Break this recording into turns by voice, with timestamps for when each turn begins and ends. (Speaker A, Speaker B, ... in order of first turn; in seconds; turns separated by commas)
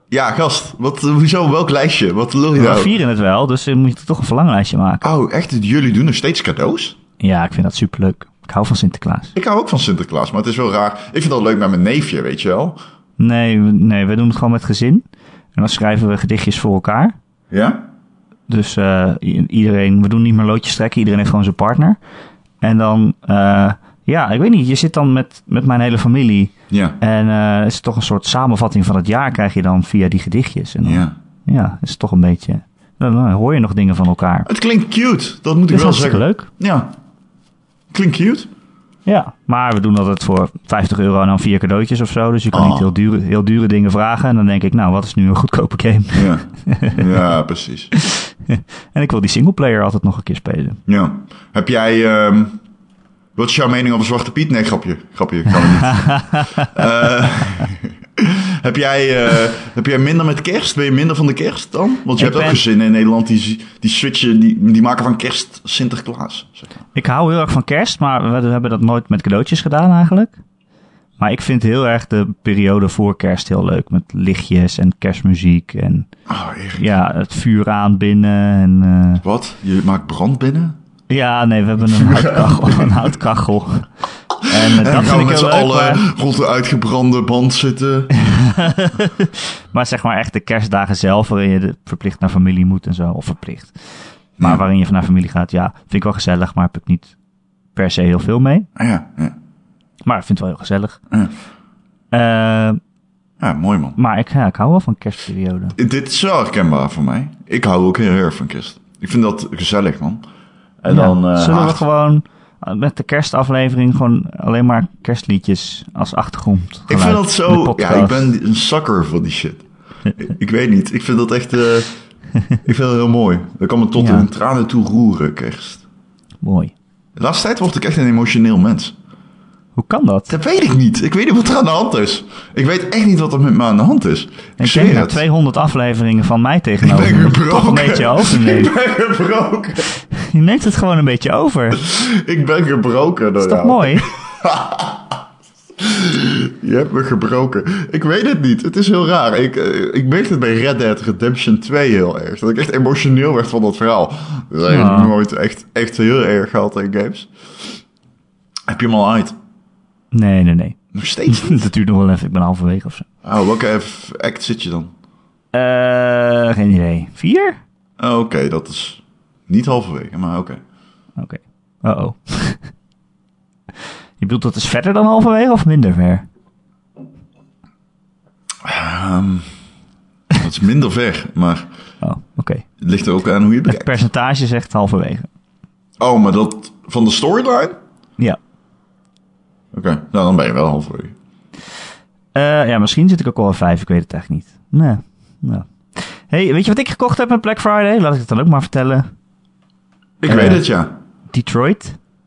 Speaker A: 0.1-2.9, Speaker B: 2.6-5.1, Speaker A: 5.0-7.0, Speaker B: 7.2-9.3, Speaker A: 9.4-12.8, Speaker B: 13.2-17.2, Speaker A: 17.5-17.8, Speaker B: 18.5-22.0, Speaker B: 22.6-34.5, Speaker A: 26.7-27.0, Speaker A: 30.8-31.1, Speaker A: 34.5-36.9, Speaker B: 35.7-36.5, Speaker A: 37.9-38.5, Speaker B: 39.1-47.0, Speaker A: 42.5-42.9, Speaker A: 46.1-47.9, Speaker B: 47.9-50.8, Speaker A: 50.9-52.6, Speaker A: 53.4-66.7, Speaker B: 55.9-56.7, Speaker B: 62.2-62.6, Speaker B: 67.0-70.3, Speaker B: 71.2-76.1, Speaker A: 76.3-76.8, Speaker B: 76.8-79.2, Speaker A: 79.2-80.8, Speaker B: 81.1-83.9, Speaker A: 81.9-83.0, Speaker A: 84.4-88.2, Speaker B: 84.5-86.0, Speaker B: 88.2-93.8, Speaker B: 94.4-97.1, Speaker B: 97.8-98.7, Speaker A: 98.8-99.4, Speaker B: 100.1-101.0, Speaker B: 102.1-102.8, Speaker A: 103.4-104.0, Speaker B: 104.0-105.8, Speaker A: 105.8-110.2, Speaker A: 110.8-111.8, Speaker B: 110.9-118.3, Speaker A: 116.9-121.9, Speaker A: 122.6-125.8, Speaker B: 124.0-124.3, Speaker B: 126.4-126.7, Speaker A: 127.2-128.9, Speaker B: 129.8-130.3, Speaker A: 130.3-135.2, Speaker B: 134.6-138.7, Speaker A: 136.8-139.9, Speaker B: 140.0-141.8, Speaker A: 141.8-145.2, Speaker B: 143.4-144.1, Speaker A: 145.8-157.8, Speaker B: 154.7-155.2, Speaker A: 158.7-159.4, Speaker B: 160.1-163.1, Speaker A: 160.9-161.7, Speaker A: 163.2-164.9, Speaker B: 165.5-167.6, Speaker A: 168.0-170.6, Speaker B: 171.2-172.7, Speaker B: 174.2-176.3, Speaker A: 178.6-179.5, Speaker A: 180.4-181.7, Speaker B: 182.0-182.7, Speaker A: 182.8-184.1, Speaker B: 183.7-185.3, Speaker A: 186.0-187.8, Speaker A: 189.7-191.1, Speaker B: 192.3-199.1, Speaker A: 200.2-200.9, Speaker B: 200.3-200.6, Speaker B: 201.3-202.0